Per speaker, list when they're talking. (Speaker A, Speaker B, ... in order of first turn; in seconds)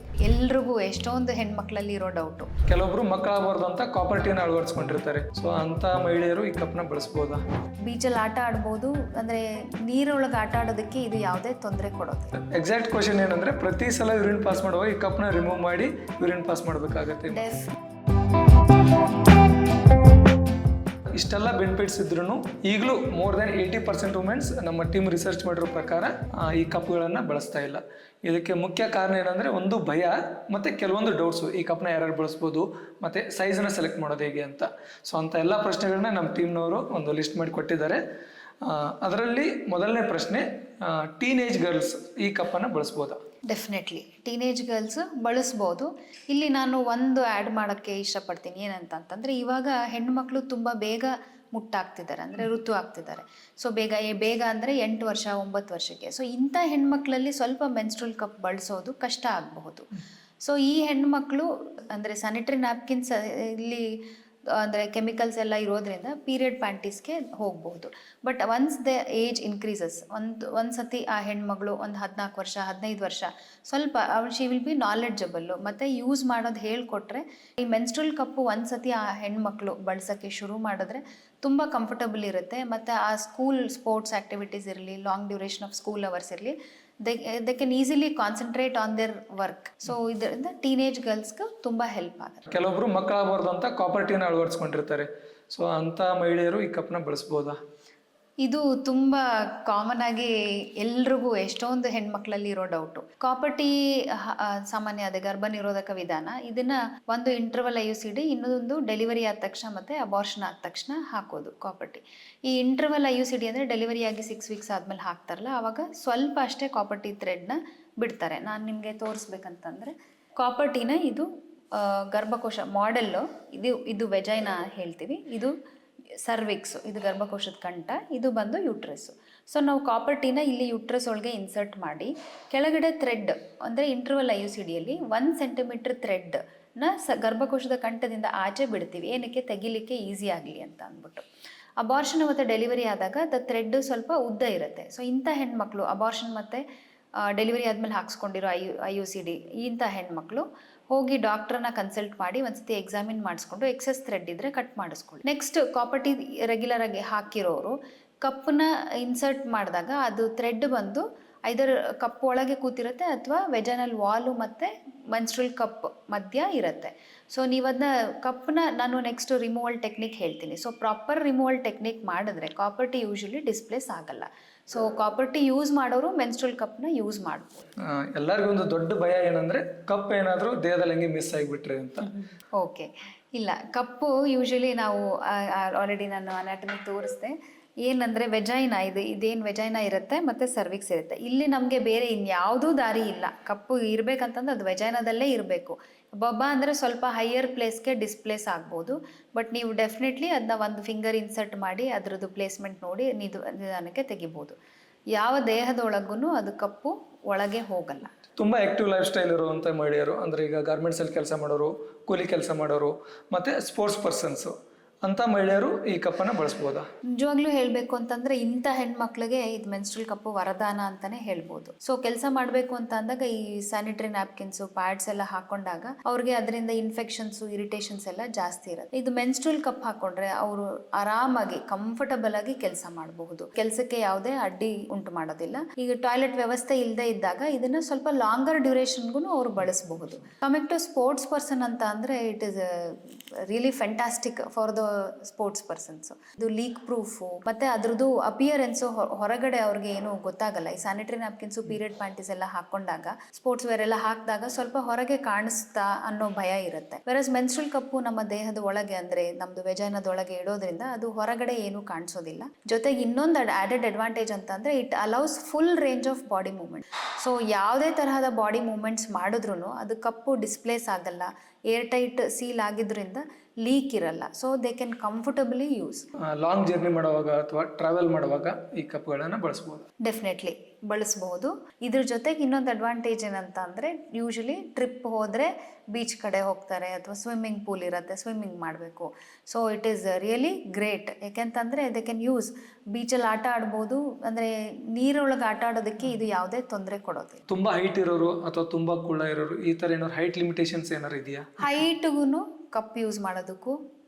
Speaker A: 0.2-2.5, 7.8-12.3, 17.3-17.7, 43.5-59.9, 60.4-92.5, 98.4-125.5, 126.2-141.2, 141.8-146.6, 147.2-177.7, 182.1-204.6, 205.1-208.2, 217.2-276.1, 280.0-297.4, 301.6-303.8
Speaker B: 2.6-7.4, 12.3-17.5, 21.1-38.0, 38.6-43.2, 92.5-97.6, 177.8-182.2, 208.4-216.8, 276.4-279.9, 297.5-301.7